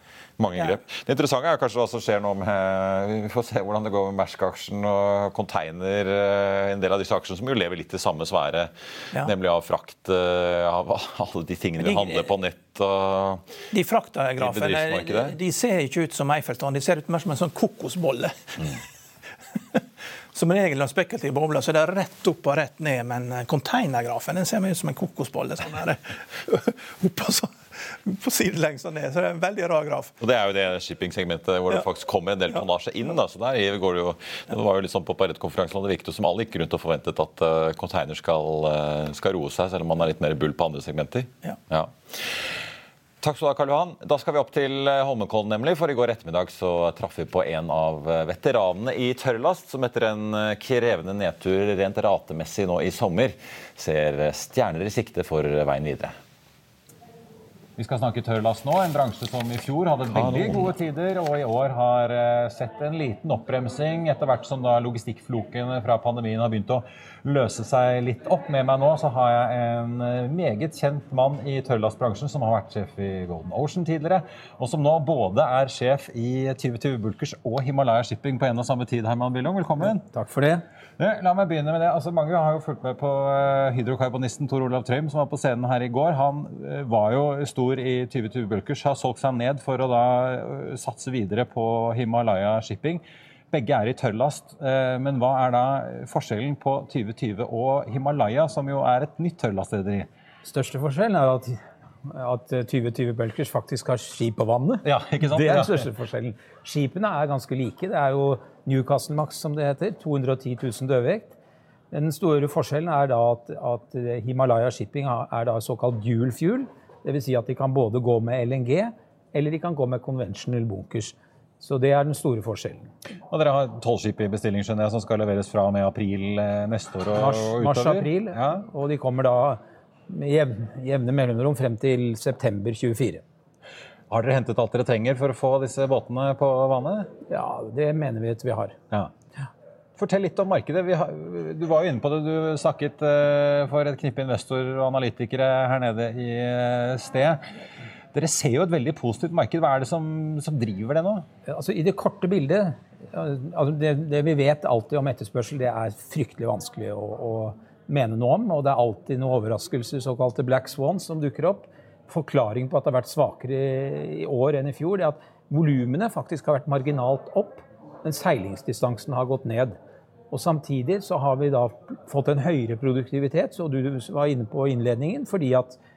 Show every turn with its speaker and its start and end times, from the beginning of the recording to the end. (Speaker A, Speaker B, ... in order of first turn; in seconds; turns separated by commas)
Speaker A: 0.4-13.4, Speaker B: 11.8-12.3, Speaker B: 13.7-18.8, Speaker A: 14.4-15.3, Speaker B: 19.6-30.1, Speaker A: 30.2-42.5, Speaker A: 43.2-56.1, Speaker C: 57.8-80.0, Speaker A: 60.1-60.7, Speaker D: 79.8-80.6, Speaker C: 81.0-100.1, Speaker D: 100.4-111.3, Speaker C: 104.8-105.9, Speaker D: 111.9-122.9, Speaker C: 123.3-128.6, Speaker D: 127.1-133.2, Speaker C: 134.1-137.1, Speaker D: 137.3-138.8, Speaker C: 140.0-147.4, Speaker C: 148.1-151.2, Speaker D: 151.4-169.8, Speaker D: 170.3-175.8